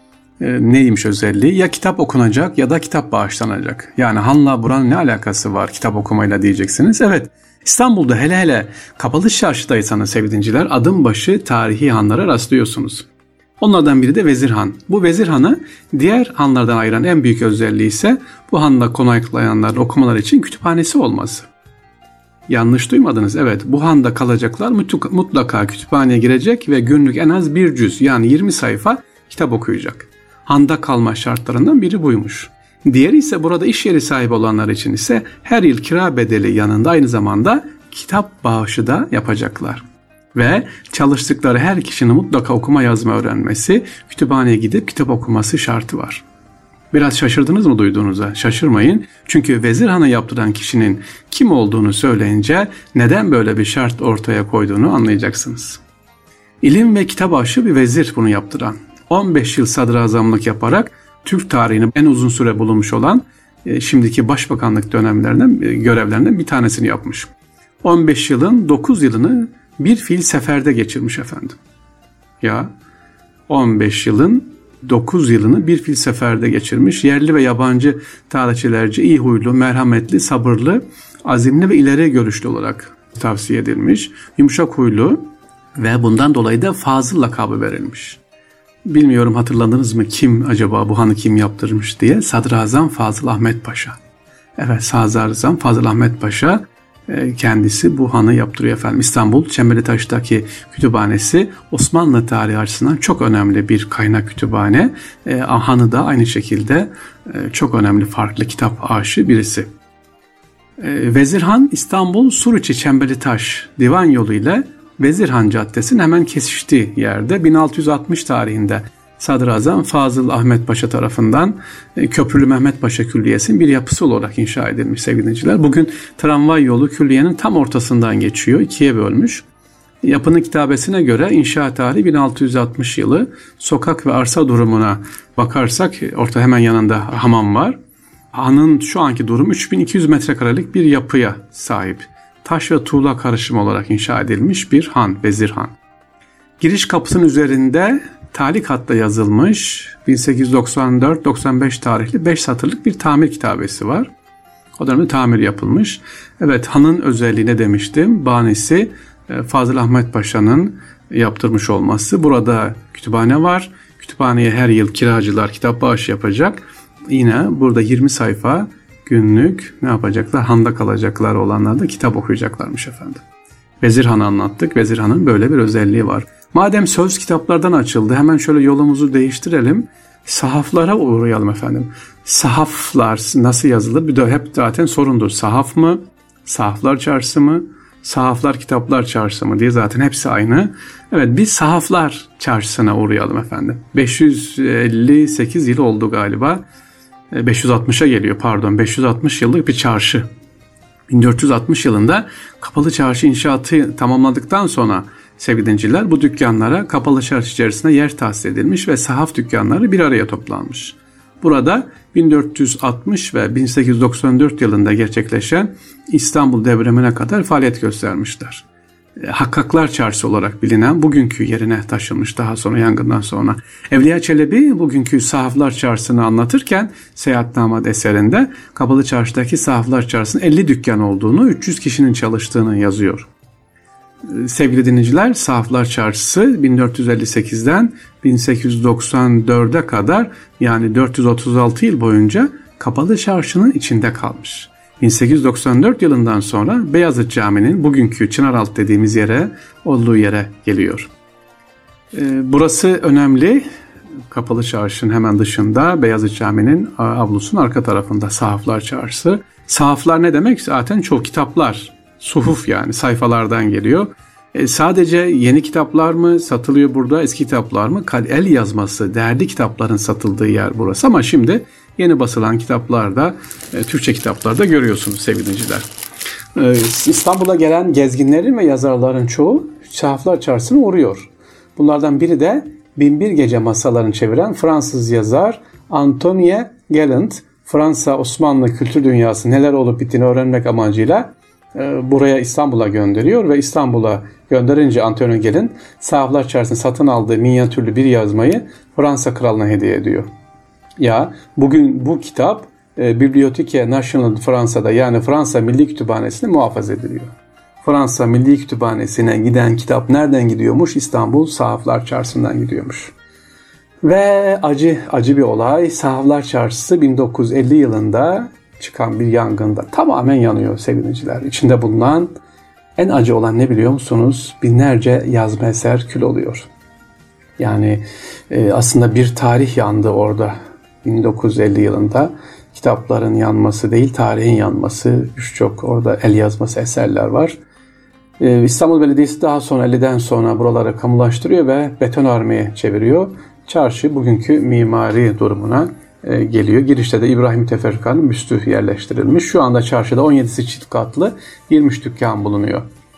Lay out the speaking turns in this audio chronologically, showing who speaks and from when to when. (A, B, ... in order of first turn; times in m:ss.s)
0:00.4-0:13.1 A
0:13.6-0:21.5 A
0:22.5-0:39.8 A
0:40.3-0:46.2 A
0:46.9-0:55.8 A
0:56.6-1:07.3 A
1:07.8-1:11.6 A
1:12.4-1:12.7 A
1:13.5-1:25.2 A
1:25.8-1:28.2 A
1:28.9-1:34.0 A
1:34.6-1:49.7 A
1:50.8-2:09.4 A
2:10.0-2:17.8 A
2:18.3-2:25.8 A
2:26.6-2:34.1 A
2:34.8-2:53.2 A
2:53.8-3:16.6 A
3:17.3-3:20.3 A
3:21.1-3:38.6 A
3:39.2-3:53.3 A
3:54.3-4:11.1 A
4:12.1-4:13.6 A
4:14.3-4:35.9 A
4:36.6-5:00.3 A
5:01.0-5:13.1 A
5:14.0-5:22.4 A
5:23.0-5:26.7 A
5:27.6-5:37.6 A
5:38.4-5:52.8 A